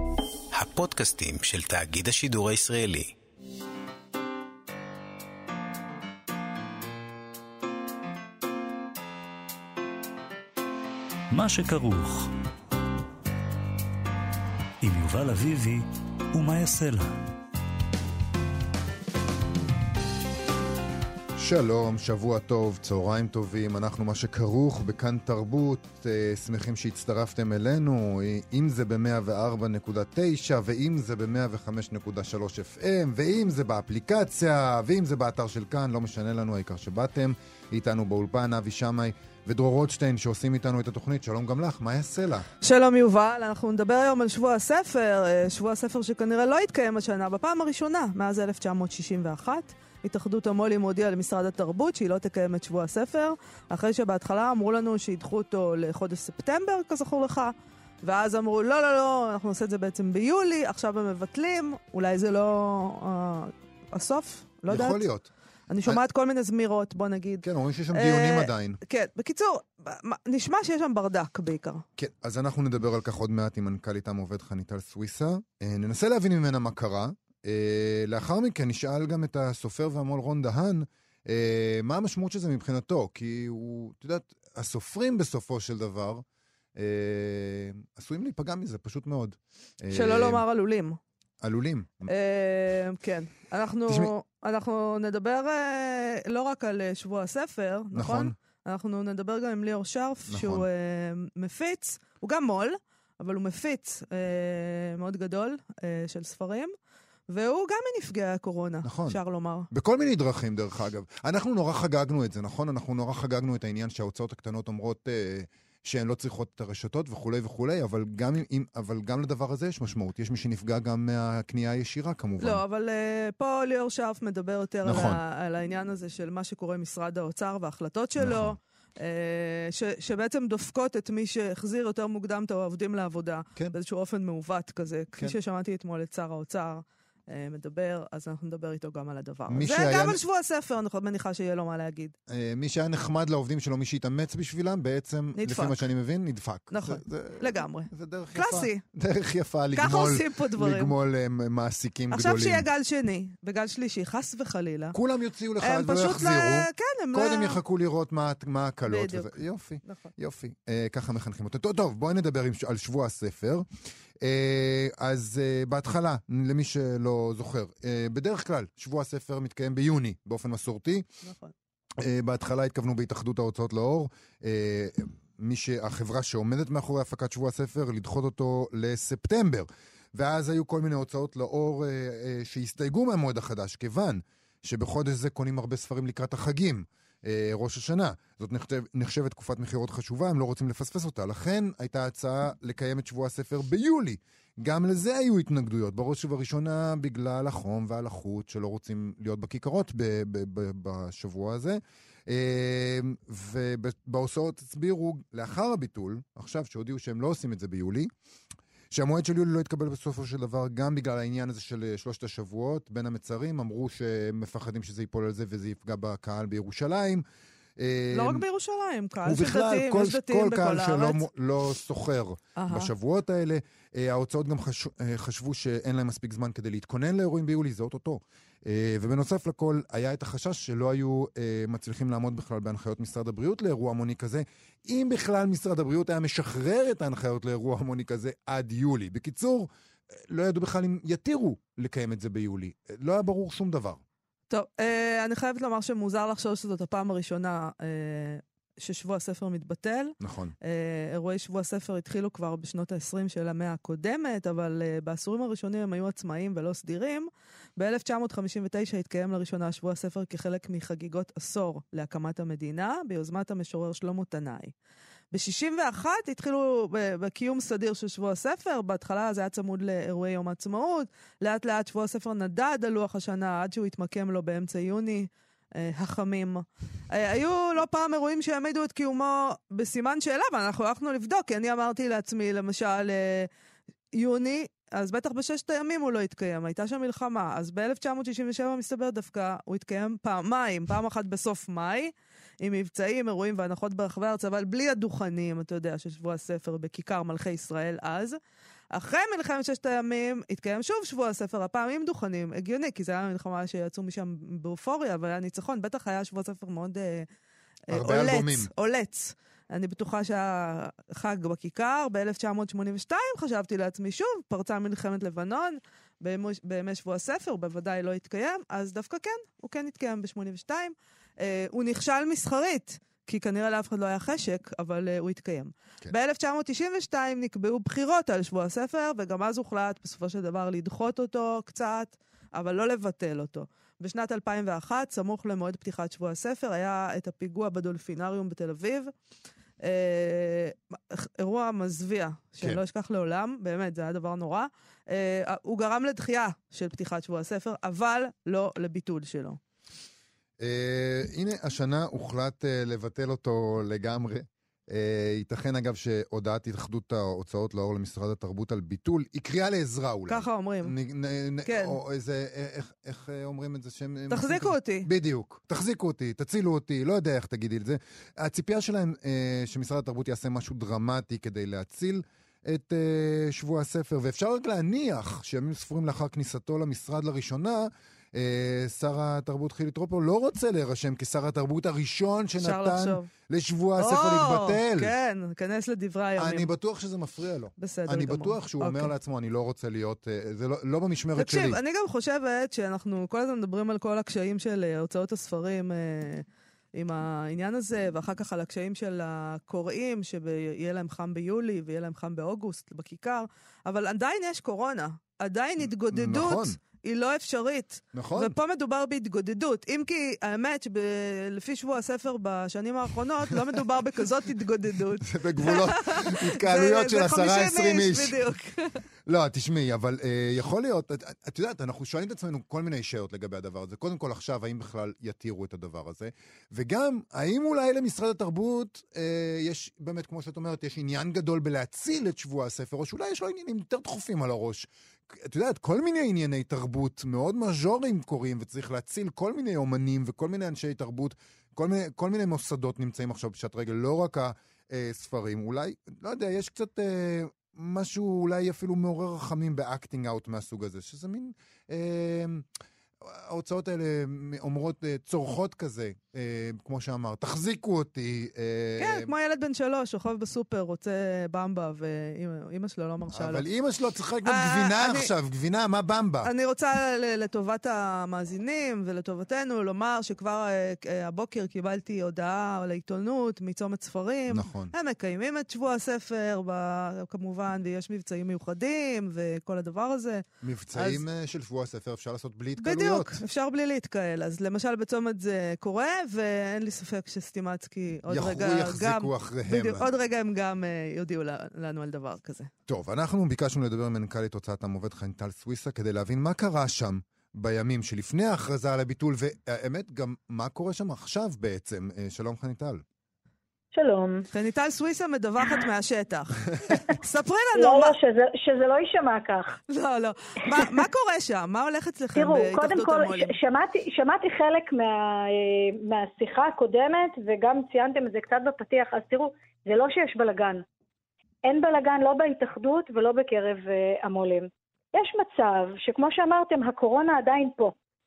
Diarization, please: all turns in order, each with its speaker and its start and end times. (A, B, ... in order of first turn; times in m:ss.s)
0:00.5-0:03.1 A
0:11.3-0:12.3 B
0:14.8-0:17.1 B
0:21.4-0:42.5 C
0:42.6-1:05.0 D
1:04.7-1:05.3 C
1:05.7-1:11.8 D
1:07.4-1:08.8 C
1:12.0-1:26.2 C
1:26.8-1:30.4 C
1:29.9-1:31.0 D
1:31.4-1:32.1 C
1:32.1-1:46.7 D
1:33.9-1:34.1 C
1:37.9-1:38.4 C
1:40.3-1:40.7 C
1:47.3-1:49.7 D
1:48.8-1:49.2 C
1:49.7-2:02.6 C
2:02.4-2:22.1 D
2:04.8-2:05.2 C
2:08.2-2:08.6 C
2:19.5-2:20.2 C
2:22.3-2:32.7 C
2:25.4-2:25.8 D
2:26.7-2:28.8 D
2:29.8-2:30.9 D
2:32.1-2:35.0 D
2:34.9-2:43.7 C
2:35.6-2:37.6 D
2:38.9-2:40.1 D
2:44.2-2:51.0 C
2:51.2-2:51.5 D
2:52.0-3:28.1 C
3:28.9-3:37.2 C
3:37.8-3:38.4 C
3:38.1-3:41.2 D
3:39.2-4:04.0 C
3:42.6-3:42.9 D
4:04.5-4:24.7 D
4:10.2-4:10.6 C
4:25.3-4:43.5 D
4:44.1-4:58.4 D
4:58.9-5:07.3 D
5:07.9-5:39.1 D
5:07.9-5:08.7 C
5:39.8-5:49.6 D
5:50.6-6:25.1 C
6:00.3-6:00.9 D
6:01.6-6:02.0 D
6:04.3-6:05.1 D
6:22.6-6:23.3 D
6:24.0-6:26.7 D
6:26.4-6:31.8 C
6:27.8-6:29.1 D
6:31.4-6:59.0 D
6:45.8-6:46.8 C
6:48.1-6:48.6 C
6:55.2-6:58.4 C
6:59.3-7:32.7 C
7:33.2-7:39.3 C
7:39.0-7:43.6 D
7:43.3-7:46.5 C
7:44.4-7:45.3 D
7:46.4-8:01.2 D
7:54.5-7:54.9 C
8:00.6-8:03.4 C
8:02.8-8:12.7 D
8:08.3-8:10.1 C
8:12.9-8:23.0 C
8:23.9-8:24.5 E
8:24.5-8:28.2 D
8:27.8-8:29.8 E
8:29.9-8:33.5 D
8:32.4-8:40.8 E
8:41.6-8:47.9 E